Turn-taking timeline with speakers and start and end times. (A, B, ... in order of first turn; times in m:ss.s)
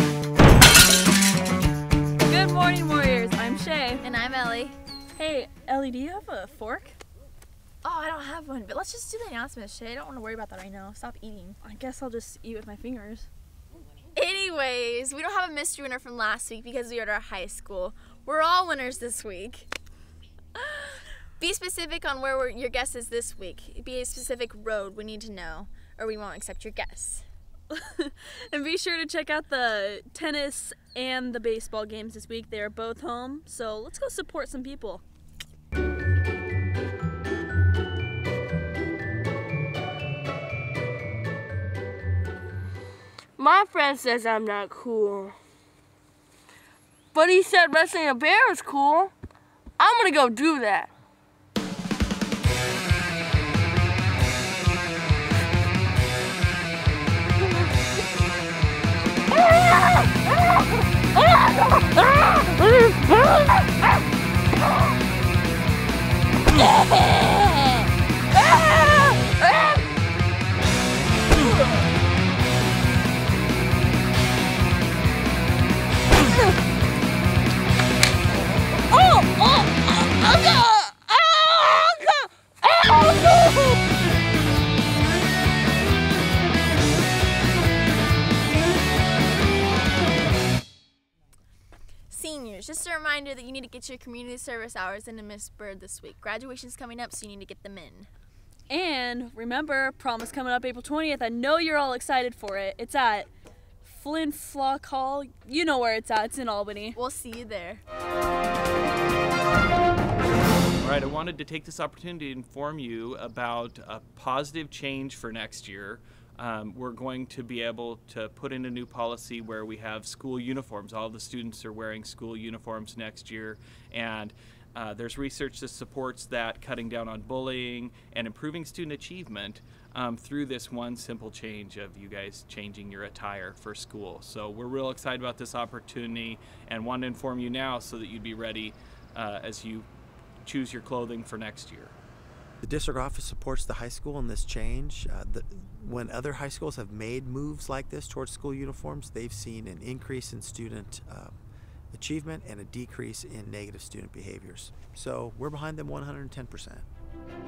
0:02.3-0:04.0 A
0:04.0-0:04.8 B
0:05.2-0:07.0 A
0:07.8-0:11.6 B
0:11.6-0:13.3 A
0:14.2-0:19.7 B
0:20.6-0:27.2 B
0:27.7-0:35.0 A
0:43.4-0:45.4 C
0:47.1-0:49.1 C
0:49.8-0:50.9 C
1:18.9-1:23.7 C
1:32.1-1:38.1 B
1:38.7-1:43.3 A
1:43.8-1:47.0 A
1:46.9-1:47.8 B
1:50.8-2:19.9 D
2:20.4-2:21.9 D
2:22.6-2:31.4 E
2:31.9-2:36.8 E